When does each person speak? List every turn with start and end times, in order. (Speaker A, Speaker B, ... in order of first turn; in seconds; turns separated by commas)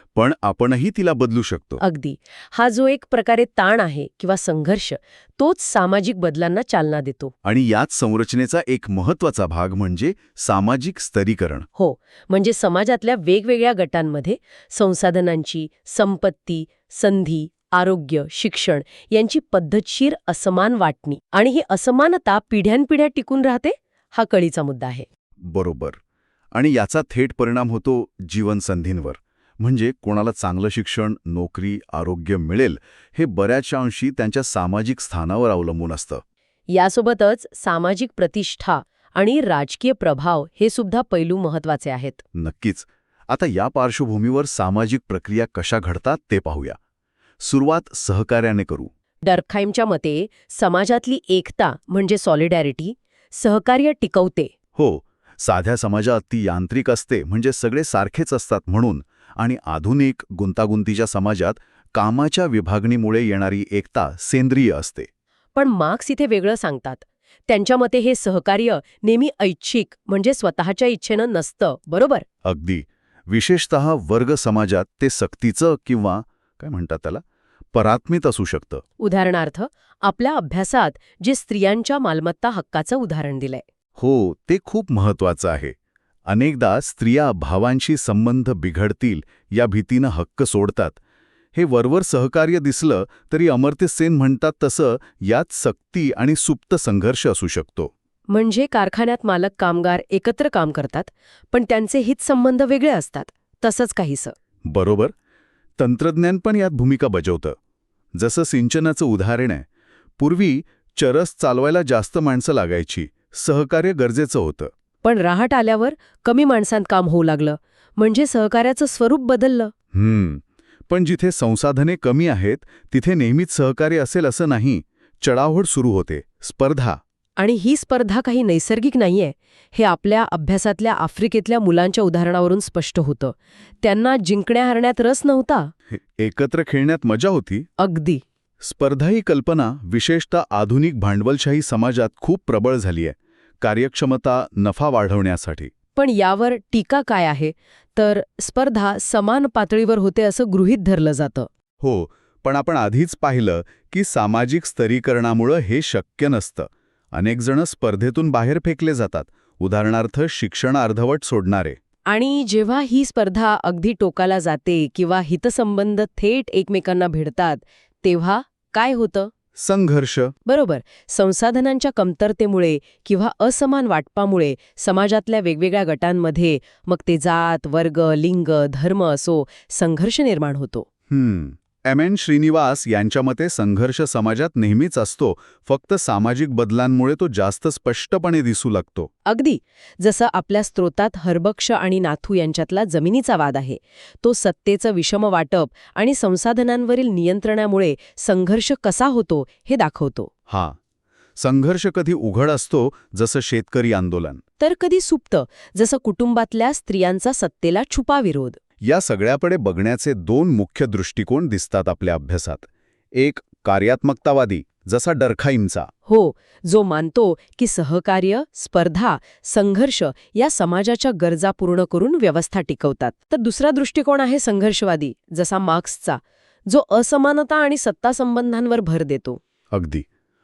Speaker A: 0.1-1.8, Speaker B: 1.8-7.3, Speaker A: 7.4-11.7, Speaker B: 11.8-25.1, Speaker A: 25.4-26.0, Speaker A: 26.5-36.2, Speaker B: 36.7-42.2, Speaker A: 42.3-46.8, Speaker A: 47.4-48.9, Speaker B: 49.2-54.5, Speaker A: 54.8-65.1, Speaker B: 65.5-72.2, Speaker A: 72.4-78.8, Speaker B: 79.0-83.6, Speaker A: 84.0-85.7, Speaker A: 86.3-91.0, Speaker A: 91.5-97.9, Speaker B: 98.3-104.3, Speaker A: 104.7-105.1, Speaker A: 105.8-107.5, Speaker A: 108.2-109.6, Speaker A: 110.2-114.7, Speaker B: 115.0-119.7, Speaker A: 119.9-127.0, Speaker B: 127.4-135.7, Speaker A: 135.9-137.7, Speaker B: 137.8-138.2, Speaker A: 138.6-145.7, Speaker B: 145.9-151.5, Speaker A: 151.8-161.8, Speaker B: 162.1-169.3, Speaker A: 169.6-170.3, Speaker B: 170.5-180.9, Speaker A: 181.1-189.1, Speaker B: 189.2-200.3, Speaker A: 200.5-200.8, Speaker A: 201.4-204.4, Speaker B: 204.6-208.6, Speaker A: 208.8-215.9, Speaker B: 216.1-229.4, Speaker A: 229.7-230.0